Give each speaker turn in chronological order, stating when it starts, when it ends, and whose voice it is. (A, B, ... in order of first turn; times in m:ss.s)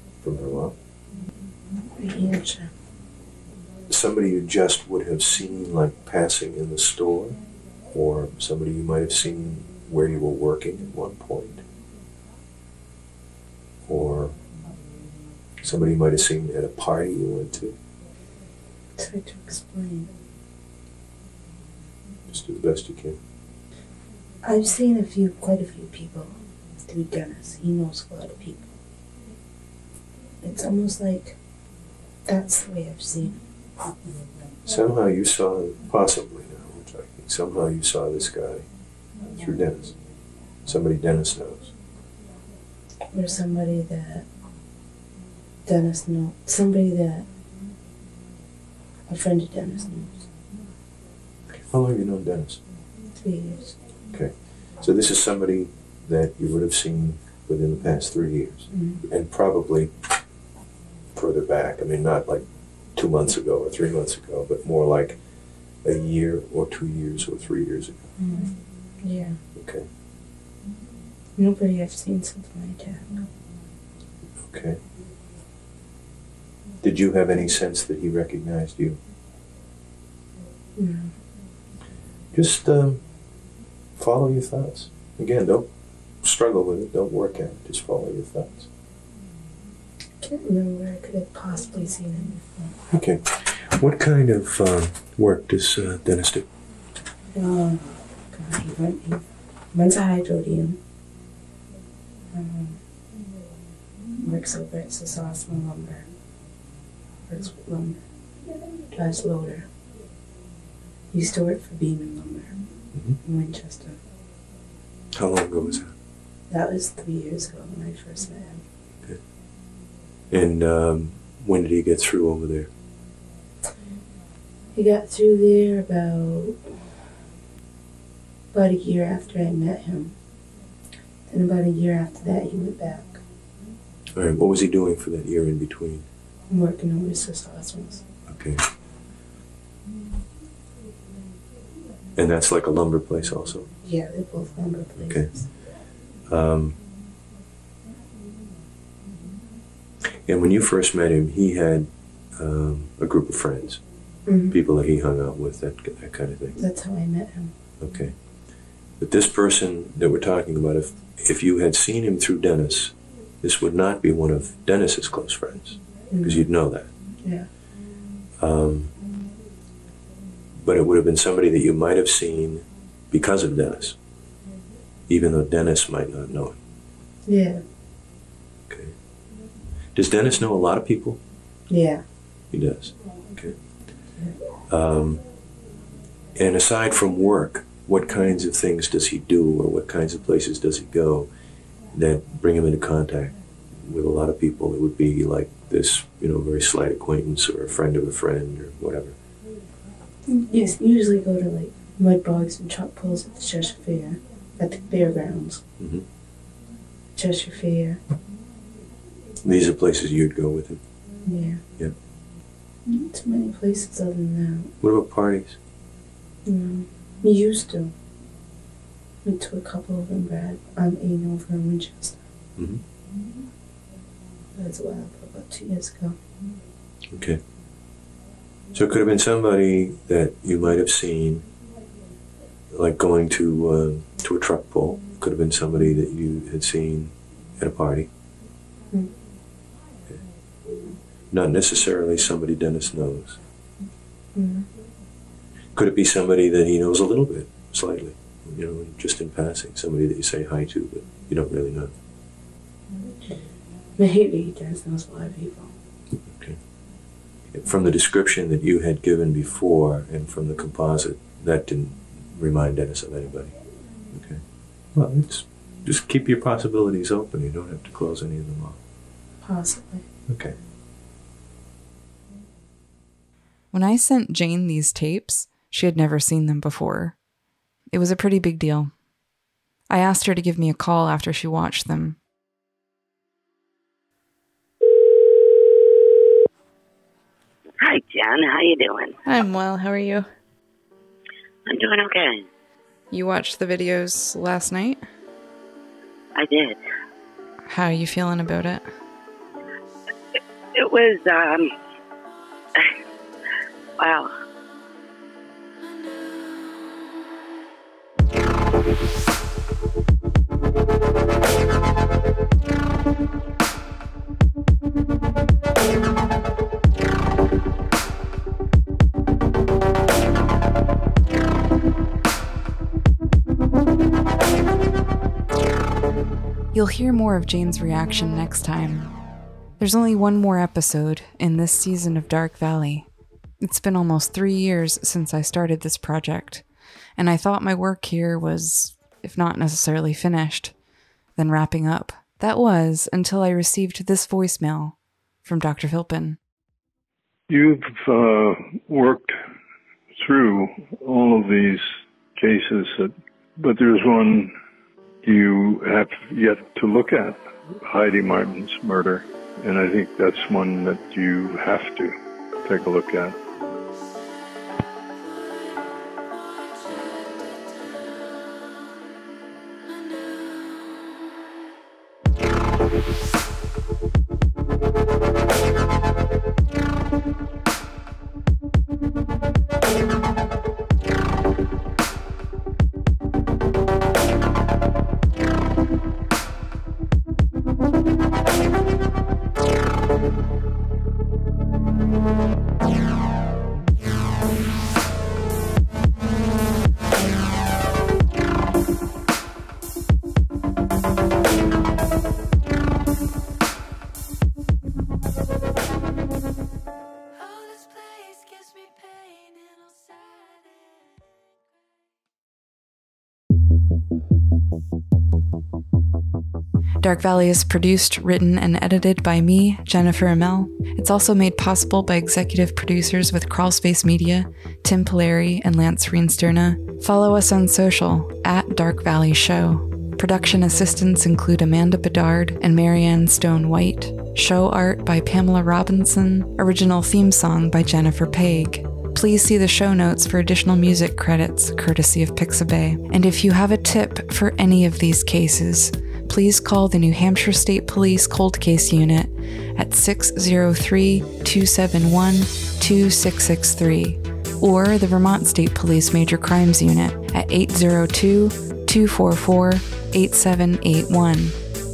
0:00.2-0:00.8 A
0:01.9-0:02.7 B
0:03.9-0:11.6 A
0:13.8-0:14.4 A
0:15.6-0:17.8 A
0:19.0-0:20.1 B
0:22.3-0:23.2 A
0:24.4-0:28.8 B
0:30.4-0:31.4 B
0:32.2-0:33.4 B
0:34.6-0:38.7 A
0:39.4-0:40.0 A
0:40.6-0:41.7 A
0:43.1-0:44.3 B
0:45.6-0:47.3 B
0:49.1-0:50.3 B
0:51.5-0:52.6 A
0:53.2-0:53.8 B
0:54.1-1:00.0 A
0:58.7-0:59.0 B
1:01.1-1:08.1 A
1:08.2-1:09.4 B
1:09.5-1:09.9 A
1:11.4-1:13.3 B
1:14.4-1:14.8 A
1:16.8-1:19.0 A
1:20.8-1:21.1 B
1:22.3-1:23.1 A
1:23.9-1:28.7 A
1:30.2-1:32.7 B
1:32.9-1:36.5 A
1:37.3-1:40.8 B
1:42.3-1:42.8 B
1:44.2-1:46.1 B
1:47.3-1:48.0 B
1:48.9-1:49.7 B
1:51.1-1:54.0 B
1:52.9-1:53.2 A
1:55.1-1:55.9 A
1:56.5-1:58.6 B
1:59.0-1:59.2 A
2:00.3-2:02.7 A
2:04.7-2:06.8 B
2:08.5-2:10.1 B
2:11.3-2:13.2 B
2:14.1-2:16.1 A
2:16.5-2:18.0 B
2:18.2-2:18.6 A
2:22.2-2:23.7 A
2:23.8-2:25.5 B
2:25.0-2:25.6 A
2:26.2-2:26.8 A
2:30.2-2:33.8 A
2:34.2-2:34.6 B
2:34.5-2:36.6 A
2:36.6-2:37.5 B
2:37.8-2:38.3 A
2:38.9-2:46.9 A
2:46.1-2:46.5 B
2:47.2-2:47.5 B
2:48.4-2:48.9 A
2:50.5-2:54.0 A
2:55.1-2:56.6 A
2:57.2-2:57.6 B
2:58.7-2:59.0 A
2:59.9-3:01.2 A
3:01.7-3:02.0 B
3:02.5-3:03.6 A
3:04.7-3:05.2 A
3:06.3-3:11.3 A
3:11.9-3:19.2 A
3:20.2-3:25.6 B
3:25.8-3:26.0 A
3:27.2-3:28.0 B
3:29.4-3:30.8 A
3:31.2-3:31.6 B
3:32.8-3:34.7 B
3:34.8-3:35.6 A
3:36.4-3:37.9 B
3:39.2-3:42.2 B
3:42.6-3:42.8 A
3:44.5-3:46.2 B
3:47.1-3:47.4 A
3:48.7-3:51.5 A
3:52.7-3:58.1 A
4:01.3-4:03.4 A
4:04.3-4:04.7 B
4:05.7-4:11.9 A
4:14.0-4:15.7 B
4:16.2-4:16.6 A
4:17.5-4:28.8 A
4:29.4-4:30.0 B
4:30.3-4:30.6 A
4:33.7-4:37.2 C
4:37.9-4:38.9 C
4:39.9-4:42.2 C
4:47.8-4:49.1 D
4:49.2-4:50.3 C
4:51.7-4:52.4 D
4:53.1-4:55.0 C
4:56.4-4:56.8 D
4:57.7-4:58.9 C
5:00.8-5:01.7 D
5:04.0-5:04.3 D
5:26.7-5:29.1 C
5:29.8-5:33.1 C
5:33.6-5:36.6 C
5:37.2-5:40.8 C
5:41.4-5:46.4 C
5:47.5-5:49.3 E
5:50.2-5:51.8 E
5:52.4-5:54.5 E
5:55.2-6:03.4 E
6:57.0-7:41.6 C